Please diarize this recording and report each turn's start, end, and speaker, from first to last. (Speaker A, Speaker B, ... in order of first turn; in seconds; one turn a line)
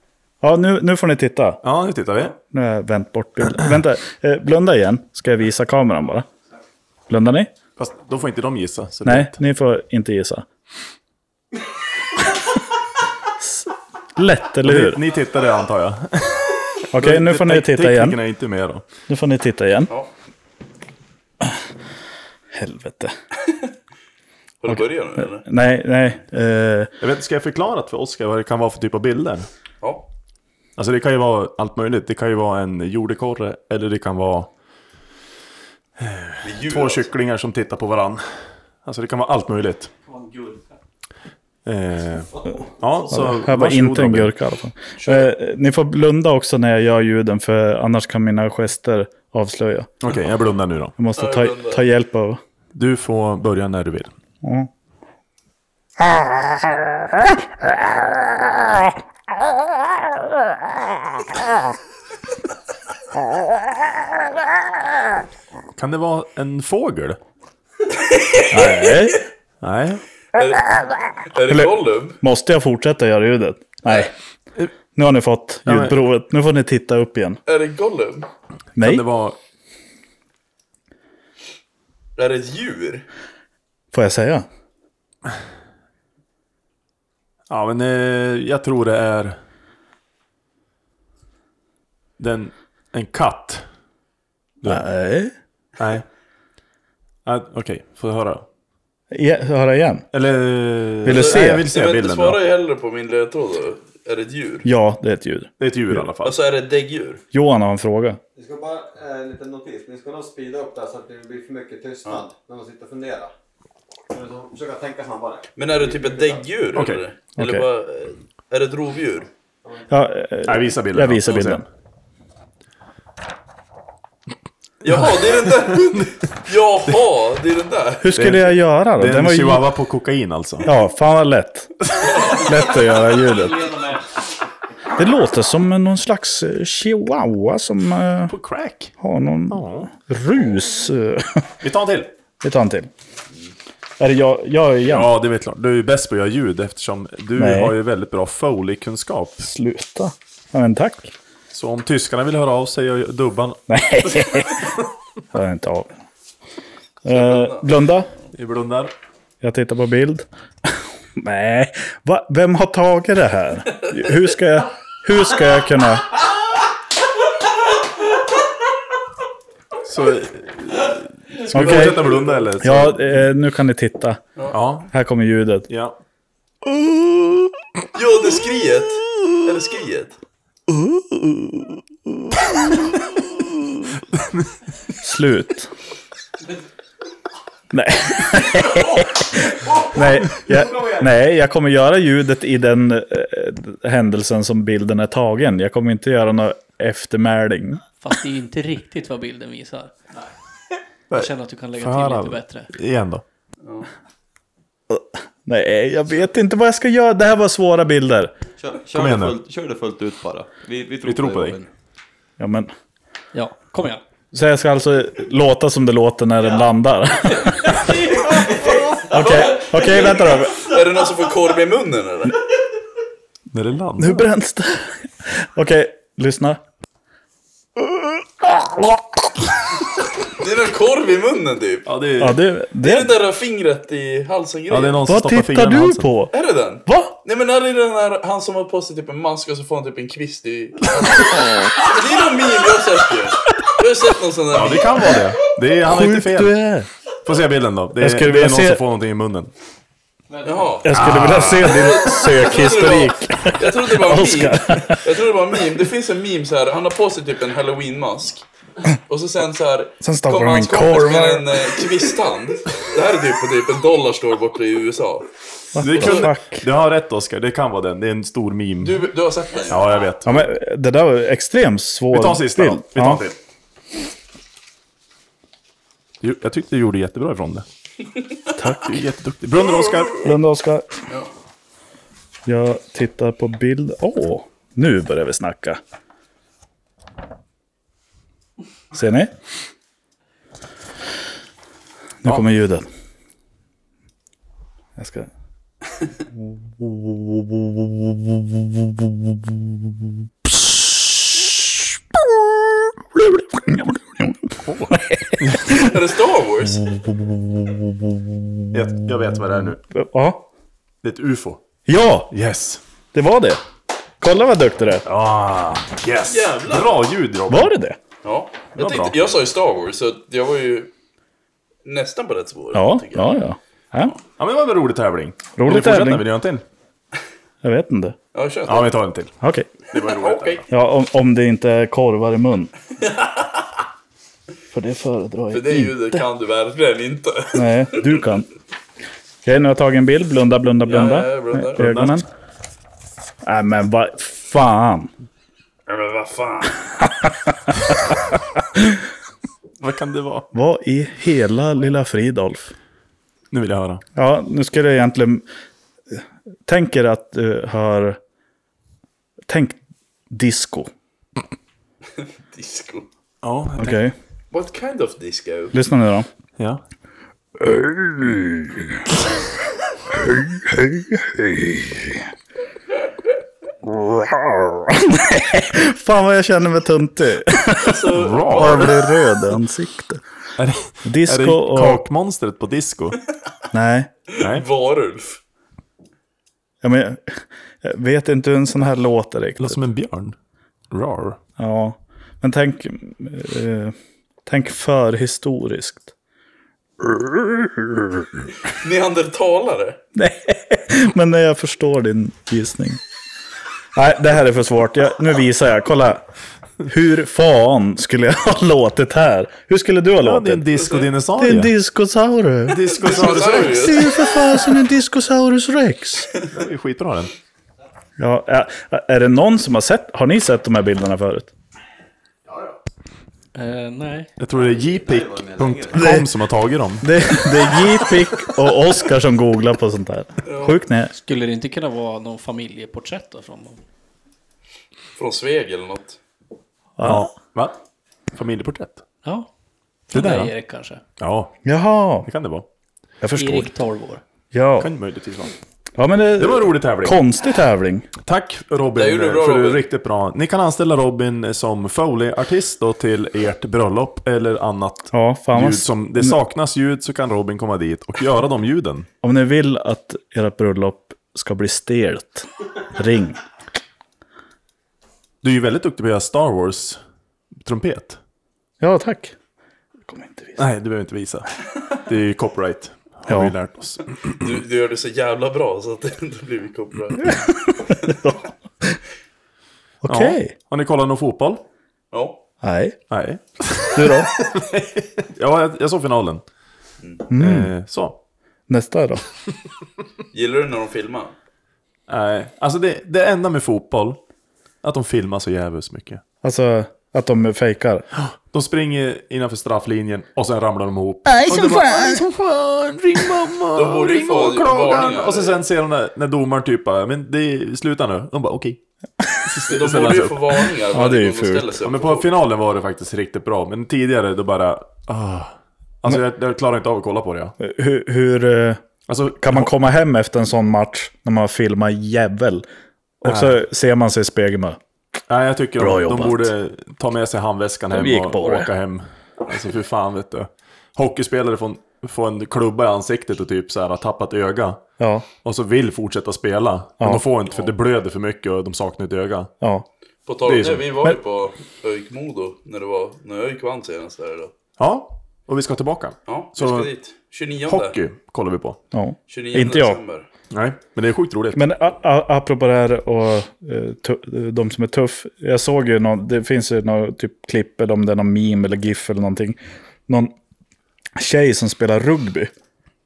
Speaker A: 0.4-1.6
Speaker B: 1.6-2.4
Speaker A: 2.5-6.3
Speaker A: 7.1-7.5
Speaker B: 7.8-9.4
Speaker A: 9.1-10.4
Speaker A: 13.4-15.0
Speaker B: 14.6-18.9
Speaker A: 16.9-18.2
Speaker A: 19.1-19.9
Speaker A: 22.5-23.1
Speaker C: 24.6-25.4
Speaker A: 24.7-26.9
Speaker B: 27.0-29.5
Speaker C: 29.8-30.1
Speaker B: 30.8-34.5
Speaker B: 36.0-38.2
Speaker C: 36.4-37.1
Speaker B: 38.8-39.9
Speaker D: 40.1-40.7
Speaker B: 41.6-44.4
Speaker A: 43.1-49.9
Speaker B: 50.0-51.0
Speaker A: 51.0-52.4
Speaker C: 51.2-51.8
Speaker B: 52.7-54.1
Speaker A: 54.4-54.7
Speaker A: 56.1-58.8
Speaker B: 65.8-67.2
Speaker C: 67.9-69.0
Speaker A: 68.5-69.2
Speaker B: 69.6-70.0
Speaker C: 70.3-72.2
Speaker A: 71.5-74.1
Speaker A: 75.0-77.4
Speaker B: 75.7-76.0
Speaker C: 77.5-78.3
Speaker A: 78.8-79.0
Speaker B: 78.8-79.4
Speaker C: 82.2-83.1
Speaker A: 83.9-84.5
Speaker B: 87.5-89.4
Speaker B: 92.2-93.7
Speaker A: 94.7-95.3
Speaker B: 95.8-96.1
Speaker B: 97.2-98.5
Speaker A: 99.1-100.1
Speaker B: 100.1-102.4
Speaker A: 101.0-101.7
Speaker C: 101.1-104.7
Speaker A: 104.7-106.0
Speaker B: 105.6-106.4
Speaker C: 106.2-107.2
Speaker A: 107.3-108.2
Speaker E: 108.4-113.3
Speaker E: 114.1-116.4
Speaker C: 115.6-119.3
Speaker B: 116.7-117.0
Speaker A: 117.4-117.7
Speaker A: 119.9-121.7
Speaker B: 120.5-121.6
Speaker C: 124.8-128.2
Speaker B: 124.9-126.1
Speaker A: 128.0-129.7
Speaker B: 128.1-130.7
Speaker A: 130.6-133.7
Speaker D: 132.2-134.2
Speaker A: 135.0-138.3
Speaker B: 138.3-138.9
Speaker A: 139.0-141.5
Speaker B: 139.5-139.9
Speaker B: 141.6-142.1
Speaker A: 142.4-142.9
Speaker A: 144.0-145.1
Speaker B: 144.9-149.5
Speaker A: 147.4-147.8
Speaker A: 149.4-151.1
Speaker B: 151.5-153.6
Speaker A: 153.7-154.7
Speaker A: 155.3-155.9
Speaker A: 157.1-158.1
Speaker C: 157.1-157.7
Speaker B: 158.3-158.9
Speaker A: 159.4-166.2
Speaker B: 169.8-173.2
Speaker A: 171.5-174.2
Speaker C: 171.8-172.4
Speaker B: 174.5-174.9
Speaker A: 174.9-175.7
Speaker B: 175.7-176.0
Speaker C: 177.9-180.2
Speaker A: 180.7-182.8
Speaker B: 184.0-184.5
Speaker A: 185.0-185.7
Speaker A: 187.7-197.8
Speaker D: 198.0-200.0
Speaker B: 201.1-203.2
Speaker D: 201.1-202.7
Speaker C: 203.6-203.9
Speaker A: 204.9-208.3
Speaker E: 208.6-211.7
Speaker B: 208.9-209.4
Speaker B: 211.0-211.6
Speaker A: 212.4-212.7
Speaker D: 213.3-214.0
Speaker A: 214.3-218.1
Speaker D: 217.8-219.0
Speaker E: 218.1-219.1
Speaker A: 219.1-220.7
Speaker D: 219.7-220.2
Speaker C: 220.5-222.4
Speaker B: 223.5-224.2
Speaker A: 224.0-226.6
Speaker A: 227.8-229.0
Speaker C: 230.3-231.9
Speaker B: 231.9-232.4
Speaker A: 232.2-233.1
Speaker C: 232.8-235.0
Speaker B: 234.7-236.1
Speaker A: 235.1-236.3
Speaker C: 236.3-245.2
Speaker A: 236.9-237.2
Speaker B: 244.5-246.6
Speaker A: 245.8-246.9
Speaker B: 247.2-249.5
Speaker A: 248.0-248.8
Speaker D: 250.3-250.7
Speaker C: 250.4-258.4
Speaker A: 250.8-255.1
Speaker B: 250.9-251.7
Speaker C: 259.1-266.3
Speaker A: 260.0-262.0
Speaker A: 265.7-266.7
Speaker B: 265.8-269.1
Speaker C: 268.8-270.0
Speaker B: 269.7-270.5
Speaker A: 270.2-273.2
Speaker B: 272.1-273.4
Speaker B: 276.2-277.7
Speaker B: 278.6-280.2
Speaker C: 279.7-280.3
Speaker A: 280.2-280.9
Speaker A: 282.5-285.8
Speaker A: 288.9-289.3
Speaker A: 292.2-292.9
Speaker A: 295.0-295.3
Speaker A: 296.3-299.9
Speaker A: 300.4-305.9
Speaker B: 304.6-305.7
Speaker C: 305.6-307.0
Speaker A: 306.7-309.0
Speaker B: 308.7-309.8
Speaker A: 309.9-310.5
Speaker B: 311.0-311.6
Speaker A: 311.9-312.3
Speaker B: 312.3-312.8
Speaker A: 313.1-313.6
Speaker A: 314.2-315.1
Speaker B: 315.1-317.7
Speaker C: 316.3-317.0
Speaker A: 317.5-318.0
Speaker C: 318.2-320.9
Speaker B: 318.8-319.2
Speaker C: 321.9-323.4
Speaker A: 322.7-324.2
Speaker B: 324.4-326.6
Speaker A: 325.6-326.3
Speaker A: 327.6-328.2
Speaker C: 328.3-329.0
Speaker B: 328.7-329.3
Speaker A: 329.4-329.7
Speaker B: 329.9-330.6
Speaker C: 329.9-330.6
Speaker A: 330.7-332.7
Speaker C: 333.0-333.6
Speaker A: 334.7-336.3
Speaker C: 335.5-338.2
Speaker A: 337.5-338.5
Speaker A: 339.4-342.3
Speaker C: 340.9-341.8
Speaker B: 341.8-342.2
Speaker A: 343.4-345.1
Speaker C: 345.9-346.9
Speaker A: 347.2-348.1
Speaker A: 348.6-349.0
Speaker B: 349.8-350.5
Speaker A: 350.5-352.7
Speaker B: 353.5-354.0
Speaker A: 354.2-355.4
Speaker A: 356.1-358.2
Speaker A: 359.5-360.9
Speaker C: 362.2-363.1
Speaker B: 363.4-364.0
Speaker A: 363.8-364.1
Speaker C: 364.5-365.8
Speaker A: 365.7-366.3
Speaker A: 367.6-369.3
Speaker A: 370.1-372.3
Speaker A: 373.8-380.2
Speaker C: 377.8-379.2
Speaker B: 378.1-379.0
Speaker B: 380.6-383.2
Speaker A: 381.0-382.0
Speaker A: 383.7-384.1
Speaker C: 384.3-385.4
Speaker B: 384.4-384.6
Speaker A: 386.8-389.8
Speaker B: 389.6-390.4
Speaker B: 390.9-391.4
Speaker A: 391.6-393.9
Speaker A: 394.5-396.1
Speaker A: 397.0-398.5
Speaker C: 398.7-400.0
Speaker A: 400.2-403.0
Speaker A: 403.9-406.2
Speaker A: 406.8-410.7
Speaker B: 410.2-411.7
Speaker C: 410.8-411.1
Speaker A: 411.4-416.3
Speaker B: 412.7-414.2
Speaker C: 413.0-414.2
Speaker B: 416.5-417.3
Speaker A: 418.2-421.5
Speaker D: 423.6-424.4
Speaker B: 424.4-427.1
Speaker E: 424.5-426.1
Speaker A: 425.9-426.3
Speaker A: 427.0-431.1
Speaker C: 430.4-430.8
Speaker D: 431.1-433.8
Speaker C: 435.2-436.2
Speaker A: 437.0-437.3
Speaker B: 437.0-437.8
Speaker B: 438.3-439.1
Speaker D: 439.2-439.5
Speaker D: 440.1-441.0
Speaker B: 440.1-440.5
Speaker B: 441.2-441.5
Speaker A: 441.6-442.3
Speaker B: 442.2-442.7
Speaker A: 443.2-443.7
Speaker D: 443.3-444.2
Speaker A: 444.5-444.9
Speaker B: 444.8-445.5
Speaker A: 446.0-448.1
Speaker B: 446.4-447.2
Speaker B: 448.2-459.1
Speaker C: 448.9-449.9
Speaker A: 455.1-456.4
Speaker A: 459.2-463.4
Speaker B: 465.4-467.0
Speaker B: 467.6-468.2
Speaker A: 468.8-469.4
Speaker A: 470.1-470.6
Speaker B: 470.6-474.5
Speaker A: 473.3-473.5
Speaker C: 474.3-478.1
Speaker A: 477.2-479.0
Speaker A: 480.0-480.6
Speaker B: 480.1-481.6
Speaker C: 482.1-482.4
Speaker A: 482.6-483.0
Speaker B: 483.1-486.4
Speaker A: 483.9-484.3
Speaker A: 487.3-487.7
Speaker B: 487.4-488.2
Speaker A: 488.7-489.2
Speaker C: 490.3-491.4
Speaker B: 492.1-494.2
Speaker B: 494.8-496.2
Speaker A: 496.4-498.1
Speaker B: 498.1-508.8
Speaker A: 501.2-502.2
Speaker C: 503.8-505.6
Speaker B: 509.4-510.6
Speaker C: 509.7-512.3
Speaker A: 510.9-511.7
Speaker B: 511.8-517.6
Speaker A: 517.6-518.8
Speaker B: 519.1-519.7
Speaker A: 519.4-522.6
Speaker A: 523.2-524.8
Speaker B: 523.2-523.6
Speaker B: 525.3-534.8
Speaker A: 525.8-526.5
Speaker A: 527.9-528.7
Speaker A: 535.0-535.3
Speaker B: 535.4-539.5
Speaker A: 537.0-537.3
Speaker A: 539.6-539.9
Speaker C: 540.3-544.5
Speaker B: 540.5-540.9
Speaker B: 544.8-546.9
Speaker C: 546.3-548.0
Speaker B: 547.7-548.8
Speaker A: 548.9-550.0
Speaker C: 549.3-550.3
Speaker B: 550.5-551.6
Speaker A: 551.5-560.3
Speaker A: 561.2-562.5